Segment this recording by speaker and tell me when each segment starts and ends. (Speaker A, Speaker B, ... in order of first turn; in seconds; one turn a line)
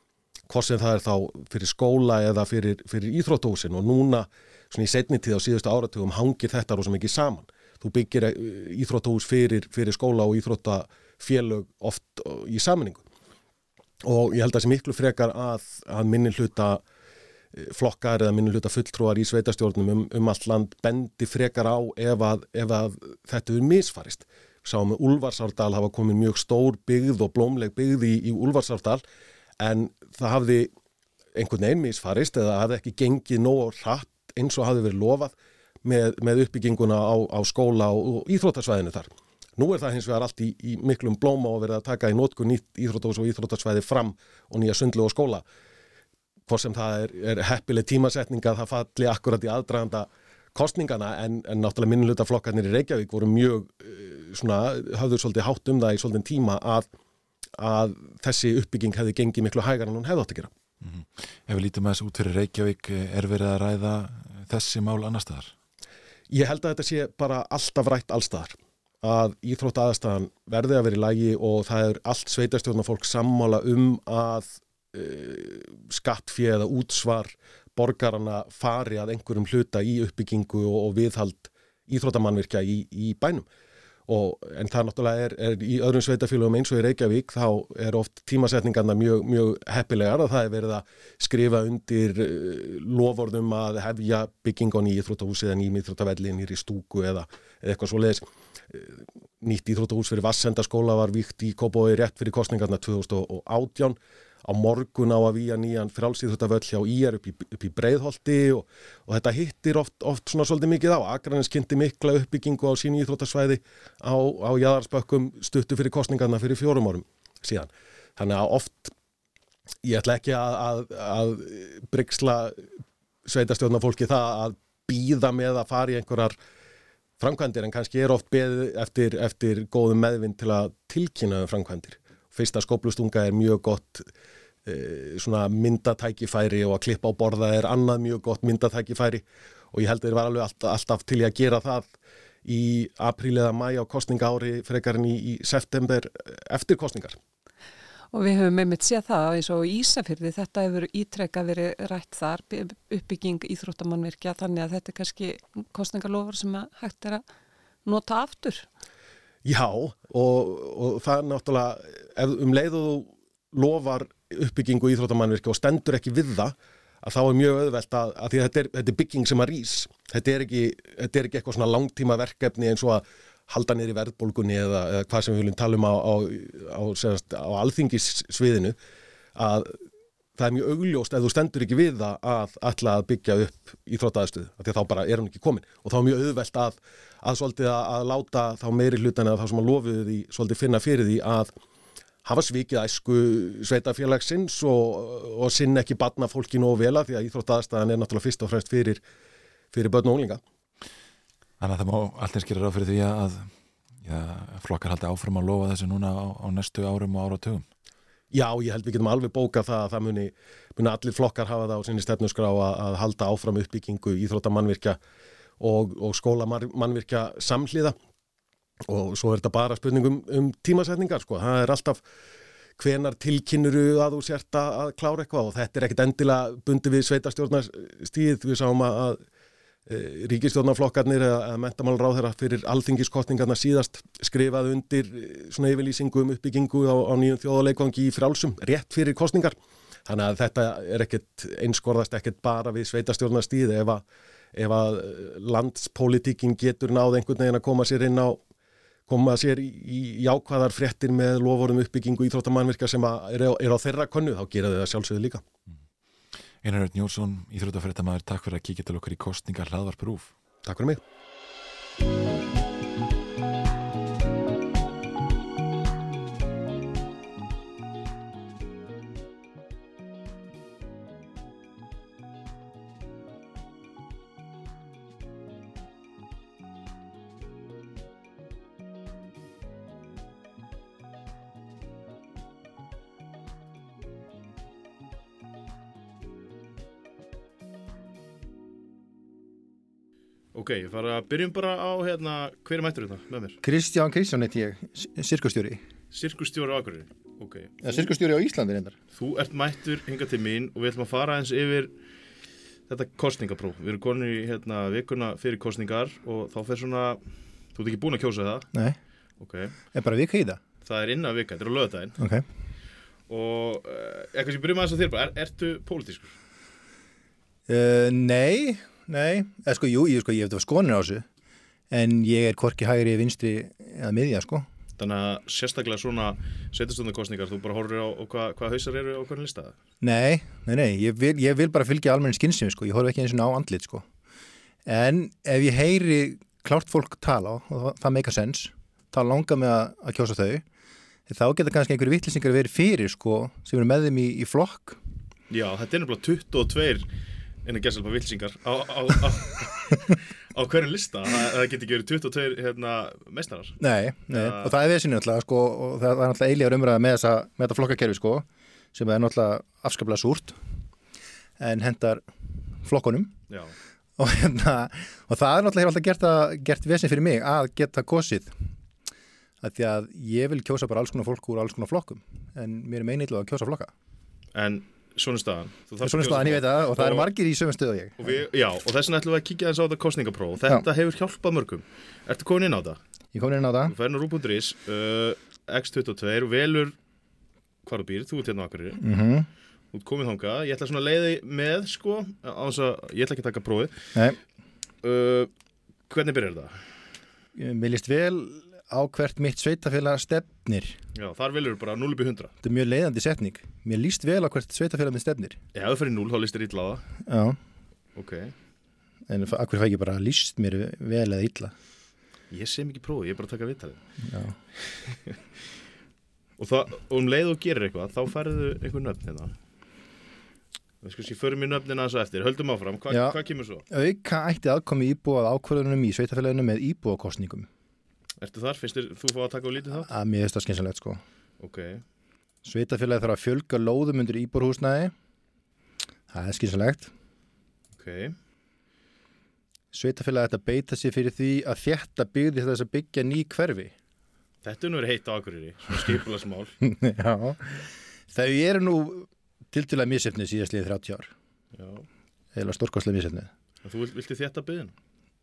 Speaker A: 0.5-13.1
Speaker A: 14.0-16.8
Speaker A: 17.6-29.0
Speaker A: 29.6-30.7
Speaker A: 31.4-45.5
Speaker A: 46.5-56.9
Speaker A: 57.6-60.5
Speaker B: 60.8-65.5
Speaker A: 66.3-83.5
Speaker A: 84.1-118.9
Speaker A: 119.8-122.7
Speaker A: 123.2-126.4
Speaker A: 127.2-134.1
Speaker A: 134.7-141.9
Speaker A: 142.4-147.2
Speaker C: 148.1-157.2
Speaker C: 157.8-158.7
Speaker A: 159.4-178.8
Speaker A: 179.4-179.8
Speaker A: 180.4-191.5
Speaker A: 192.2-199.0
Speaker A: 199.7-200.4
Speaker B: 201.6-207.7
Speaker A: 208.3-215.0
Speaker A: 215.6-217.9
Speaker A: 218.9-222.0
Speaker A: 222.8-229.2
Speaker A: 229.9-239.6
Speaker A: 240.1-244.0
Speaker A: 244.6-248.4
Speaker A: 249.1-255.4
Speaker B: 256.6-260.3
Speaker A: 260.6-261.0
Speaker D: 290.5-293.6
Speaker E: 293.6-295.8
Speaker D: 296.1-298.0
Speaker E: 297.8-299.0
Speaker D: 299.1-301.9
Speaker D: 302.9-307.2
Speaker D: 307.8-308.7
Speaker E: 308.7-309.0
Speaker D: 309.4-309.8
Speaker E: 309.9-310.6
Speaker D: 310.8-312.2
Speaker E: 312.2-312.4
Speaker D: 313.3-316.4
Speaker E: 317.7-321.3
Speaker E: 321.9-324.7
Speaker D: 325.0-329.8
Speaker E: 330.0-334.1
Speaker E: 334.9-340.6
Speaker E: 341.3-345.0
Speaker D: 345.5-347.1
Speaker D: 347.6-353.8
Speaker E: 353.8-360.6
Speaker D: 354.3-354.7
Speaker E: 361.6-362.3
Speaker E: 362.8-363.4
Speaker D: 363.5-363.8
Speaker E: 364.2-368.7
Speaker E: 369.6-373.9
Speaker D: 374.6-377.3
Speaker E: 376.0-378.4
Speaker D: 378.2-383.0
Speaker E: 383.3-383.9
Speaker D: 383.9-387.0
Speaker D: 387.8-389.0
Speaker E: 389.0-389.5
Speaker D: 389.9-394.2
Speaker E: 394.1-394.4
Speaker D: 395.0-395.5
Speaker D: 396.1-396.9
Speaker E: 397.6-401.0
Speaker D: 401.2-402.5
Speaker E: 402.6-405.6
Speaker D: 405.7-407.1
Speaker E: 407.3-407.6
Speaker D: 408.1-408.5
Speaker E: 409.3-411.7
Speaker D: 412.5-414.0
Speaker E: 414.3-414.6
Speaker D: 414.9-415.4
Speaker D: 416.6-419.5
Speaker D: 421.0-423.8
Speaker E: 423.1-423.4
Speaker E: 423.9-427.7
Speaker D: 428.4-430.1
Speaker E: 430.1-431.2
Speaker D: 431.6-432.0
Speaker E: 432.6-435.1
Speaker E: 436.3-437.1
Speaker D: 437.9-438.4
Speaker E: 439.9-443.9
Speaker D: 444.6-446.8
Speaker E: 446.9-451.3
Speaker D: 451.7-452.1
Speaker E: 452.5-453.5
Speaker D: 453.8-454.9